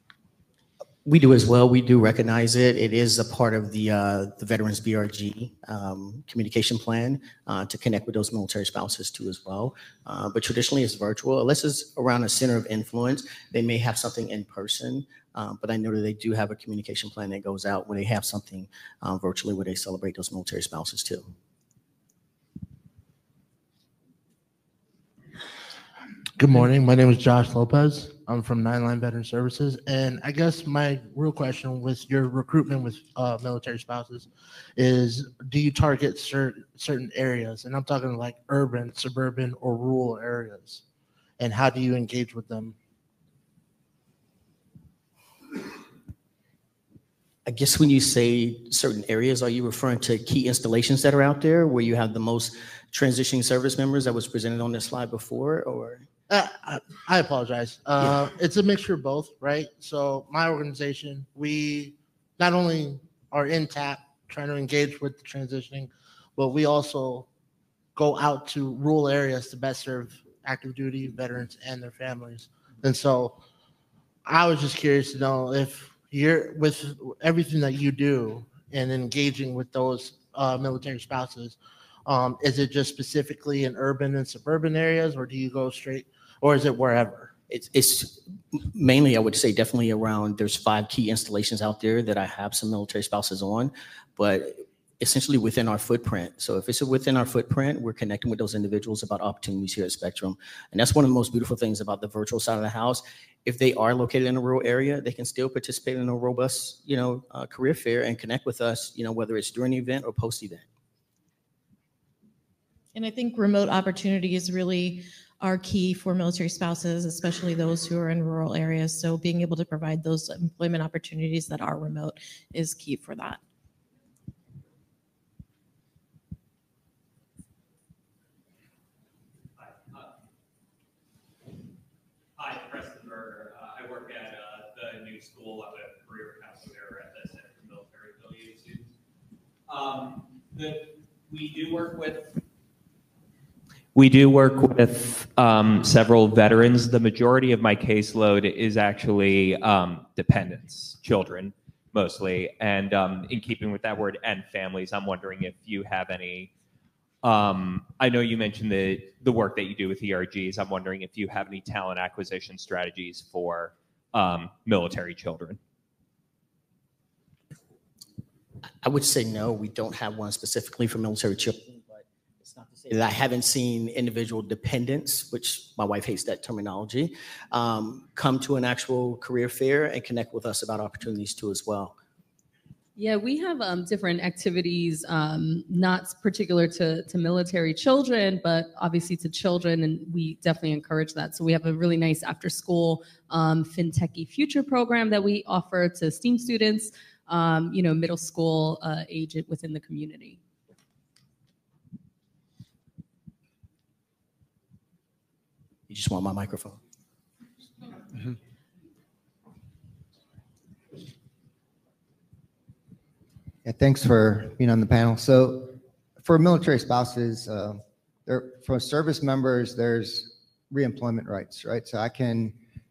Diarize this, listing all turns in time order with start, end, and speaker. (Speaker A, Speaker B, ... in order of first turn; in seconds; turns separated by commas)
Speaker A: 1.0-21.2, Speaker B: 26.4-40.8, Speaker B: 41.4-42.7, Speaker A: 47.5-56.0, Speaker B: 56.3-67.3, Speaker B: 67.9-73.4, Speaker B: 74.2-87.3, Speaker A: 87.5-110.6, Speaker C: 112.9-123.4, Speaker D: 129.6-130.1, Speaker D: 132.4-138.9, Speaker D: 139.7-142.4, Speaker D: 143.9-156.5, Speaker D: 157.2-165.6, Speaker A: 168.8-181.9, Speaker E: 182.9-200.4, Speaker A: 205.9-206.8, Speaker F: 213.6-222.6